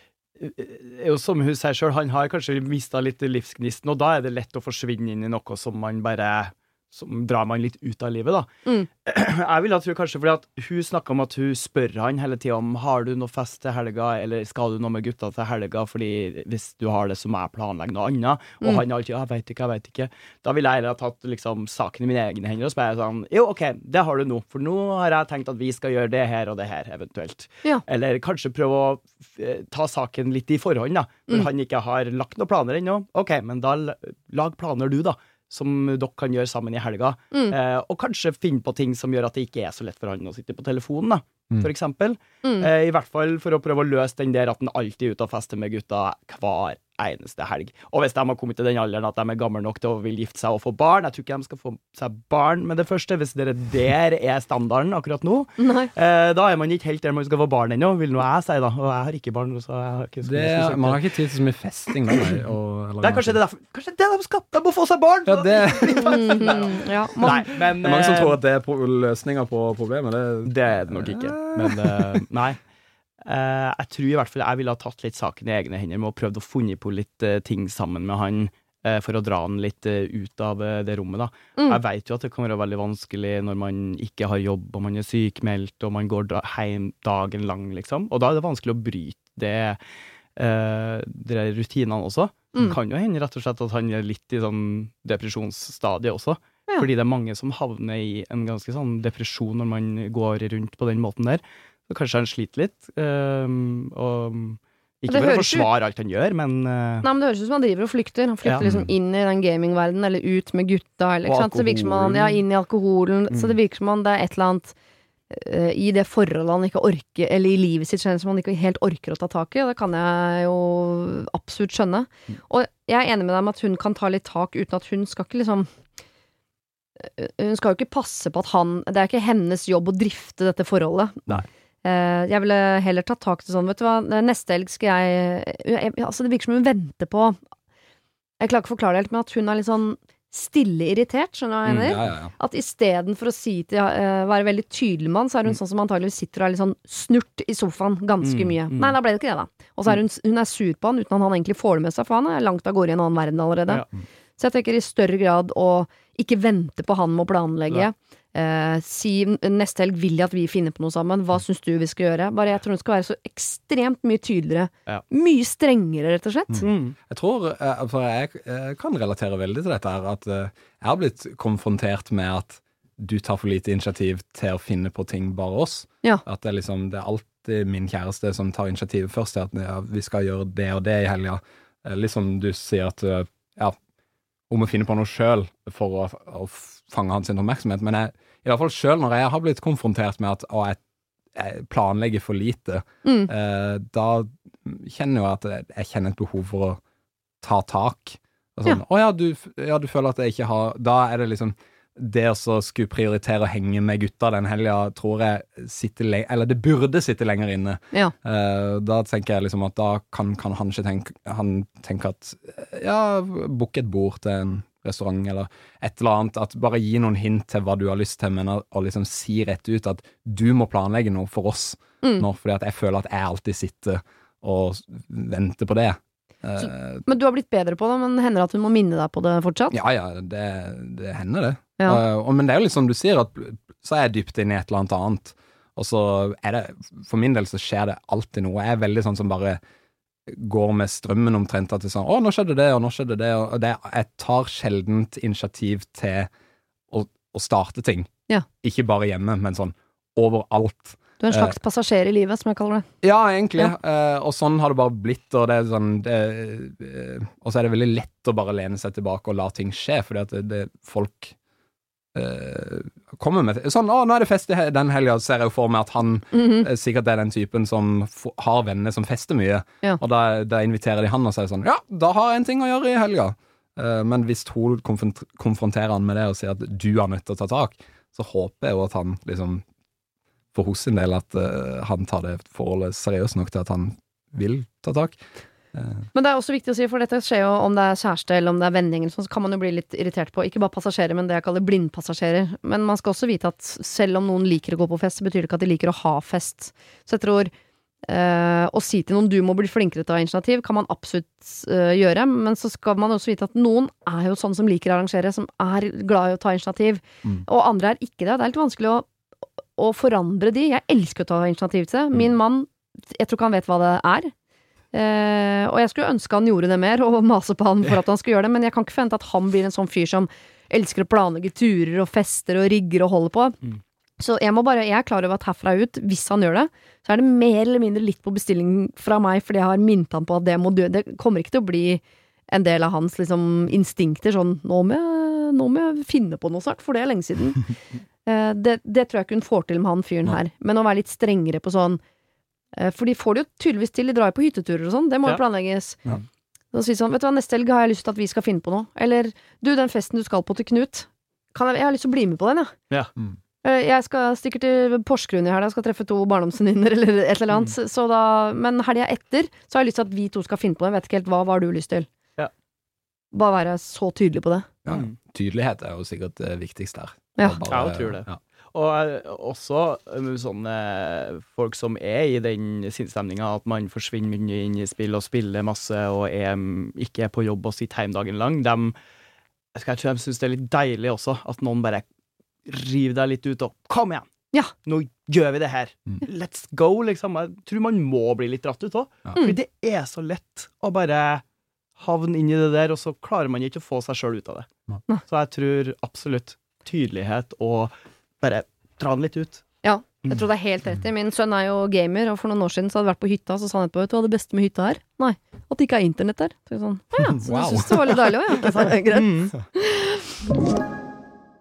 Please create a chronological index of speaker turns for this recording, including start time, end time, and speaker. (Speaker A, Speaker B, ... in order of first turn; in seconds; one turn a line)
Speaker A: 0.4-8.5
Speaker A: 9.0-61.0
Speaker B: 42.4-42.7
Speaker B: 55.6-55.9
Speaker C: 60.2-63.4
Speaker A: 63.0-68.4
Speaker C: 65.2-66.5
Speaker B: 65.9-67.5
Speaker C: 67.2-72.2
Speaker A: 70.5-72.6
Speaker A: 73.2-89.8
Speaker A: 90.4-107.0
Speaker B: 105.1-105.7
Speaker B: 107.0-114.7
Speaker C: 108.6-108.9
Speaker A: 111.2-112.4
Speaker B: 115.3-125.7
Speaker B: 127.0-137.4
Speaker B: 138.4-153.8
Speaker A: 141.7-141.9
Speaker C: 141.8-142.3
Speaker A: 148.2-148.9
Speaker B: 154.4-166.7
Speaker C: 166.5-183.8
Speaker A: 166.6-166.9
Speaker C: 184.5-190.8
Speaker C: 191.3-196.8
Speaker B: 193.0-193.3
Speaker C: 197.4-227.1
Speaker B: 226.6-229.8
Speaker C: 229.7-239.6
Speaker C: 240.3-246.3
Speaker C: 246.9-248.1
Speaker C: 248.6-251.5
Speaker B: 251.2-252.9
Speaker C: 253.0-261.3
Speaker C: 262.1-279.6
Speaker B: 266.3-266.6
Speaker C: 280.5-285.2
Speaker C: 285.7-286.1
Speaker B: 286.1-297.5
Speaker B: 298.0-309.1
Speaker B: 309.8-314.3
Speaker B: 314.9-323.6
Speaker B: 324.2-337.7
Speaker B: 338.2-342.0
Speaker B: 342.7-346.0
Speaker B: 346.7-352.7
Speaker B: 353.6-362.1
Speaker B: 363.3-364.7
Speaker C: 364.8-368.4
Speaker A: 364.9-365.1
Speaker A: 367.7-378.9
Speaker A: 379.7-382.0
Speaker A: 382.6-384.2
Speaker A: 384.8-391.4
Speaker A: 392.0-394.7
Speaker A: 395.3-399.6
Speaker B: 399.8-410.3
Speaker C: 407.2-408.2
Speaker A: 408.6-409.6